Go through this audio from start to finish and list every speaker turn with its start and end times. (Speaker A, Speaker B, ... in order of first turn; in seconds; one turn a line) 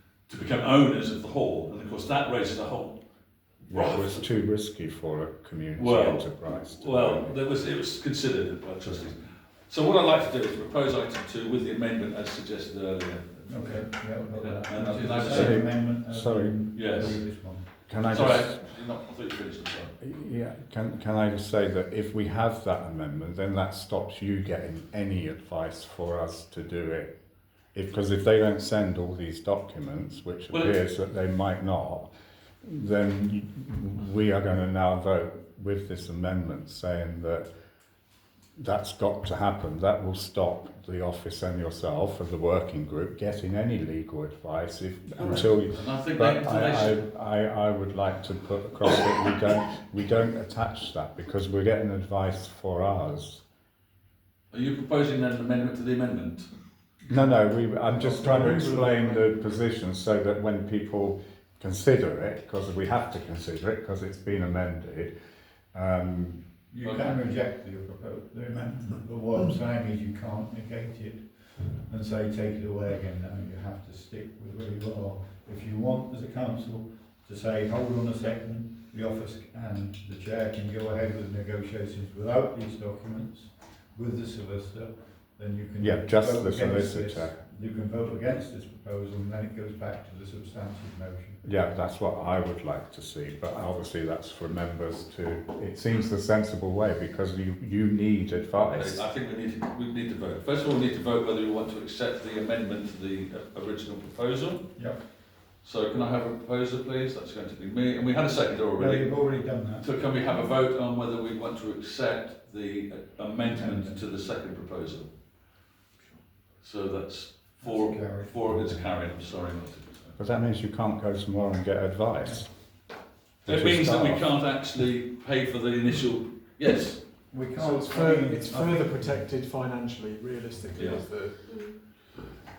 Speaker A: 0.3-3.0
Speaker A: 3.6-4.3
Speaker B: 3.7-7.4
Speaker A: 5.8-15.7
Speaker B: 8.8-9.1
Speaker C: 13.5-17.7
Speaker B: 15.3-17.2
Speaker A: 16.7-17.2
Speaker B: 17.9-18.6
Speaker A: 18.1-19.9
Speaker B: 20.0-27.2
Speaker B: 27.7-32.1
Speaker A: 30.5-30.8
Speaker B: 32.6-37.5
Speaker B: 38.6-53.4
Speaker A: 45.2-47.0
Speaker A: 54.5-56.5
Speaker B: 57.1-65.1
Speaker A: 58.0-59.1
Speaker C: 58.6-59.0
Speaker B: 65.7-66.5
Speaker A: 66.7-67.2
Speaker C: 66.8-91.4
Speaker B: 85.8-87.4
Speaker B: 91.4-99.0
Speaker A: 98.5-104.9
Speaker C: 104.8-105.0
Speaker A: 105.6-115.1
Speaker C: 108.8-109.9
Speaker C: 113.5-114.0
Speaker A: 116.6-120.2
Speaker C: 117.6-118.9
Speaker B: 120.2-122.5
Speaker B: 123.5-124.3
Speaker A: 123.5-127.0
Speaker C: 127.3-129.3
Speaker D: 127.6-131.5
Speaker A: 130.8-131.1